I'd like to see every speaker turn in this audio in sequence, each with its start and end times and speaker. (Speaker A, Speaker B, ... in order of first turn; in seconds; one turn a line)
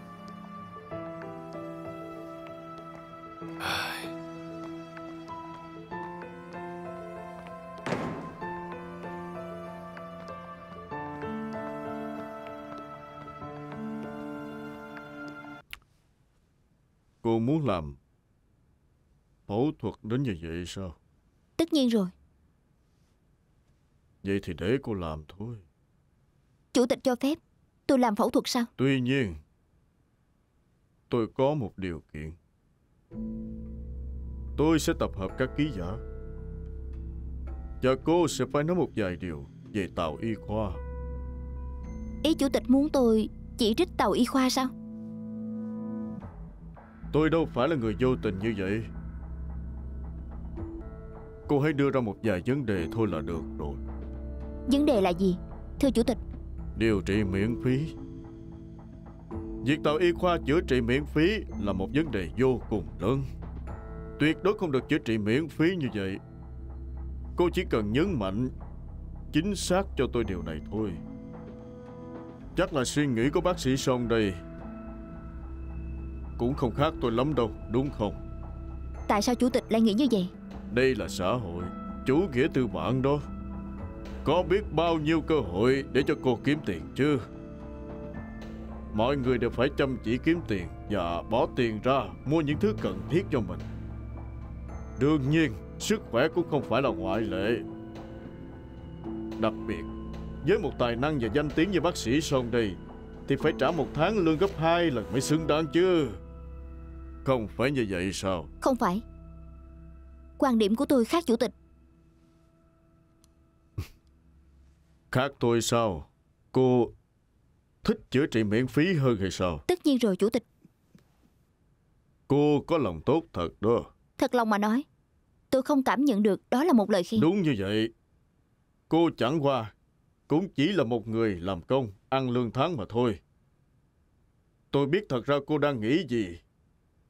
Speaker A: 17.2-18.0
Speaker A: 19.5-21.0
Speaker B: 21.6-22.1
Speaker A: 24.2-25.6
Speaker B: 26.7-28.7
Speaker A: 28.8-29.4
Speaker A: 31.1-32.4
Speaker A: 34.6-36.0
Speaker A: 37.8-40.8
Speaker B: 42.2-44.7
Speaker A: 47.1-48.9
Speaker A: 51.5-53.8
Speaker B: 54.7-56.2
Speaker A: 56.8-58.0
Speaker A: 59.6-63.2
Speaker A: 64.2-66.2
Speaker A: 67.4-68.5
Speaker A: 69.3-71.0
Speaker A: 72.6-74.4
Speaker A: 76.4-78.2
Speaker B: 79.1-80.3
Speaker A: 80.7-83.2
Speaker A: 84.2-87.2
Speaker A: 88.9-93.7
Speaker A: 95.0-97.7
Speaker A: 99.4-99.9
Speaker A: 100.4-106.2
Speaker A: 107.2-108.5
Speaker B: 108.6-109.0
Speaker B: 110.4-111.5
Speaker A: 115.1-116.9
Speaker A: 117.8-119.6
Speaker B: 119.7-120.4
Speaker A: 122.3-123.9
Speaker B: 124.2-124.9
Speaker B: 125.5-127.3
Speaker A: 127.2-127.9
Speaker A: 128.9-129.7
Speaker A: 130.3-133.2
Speaker A: 134.7-136.4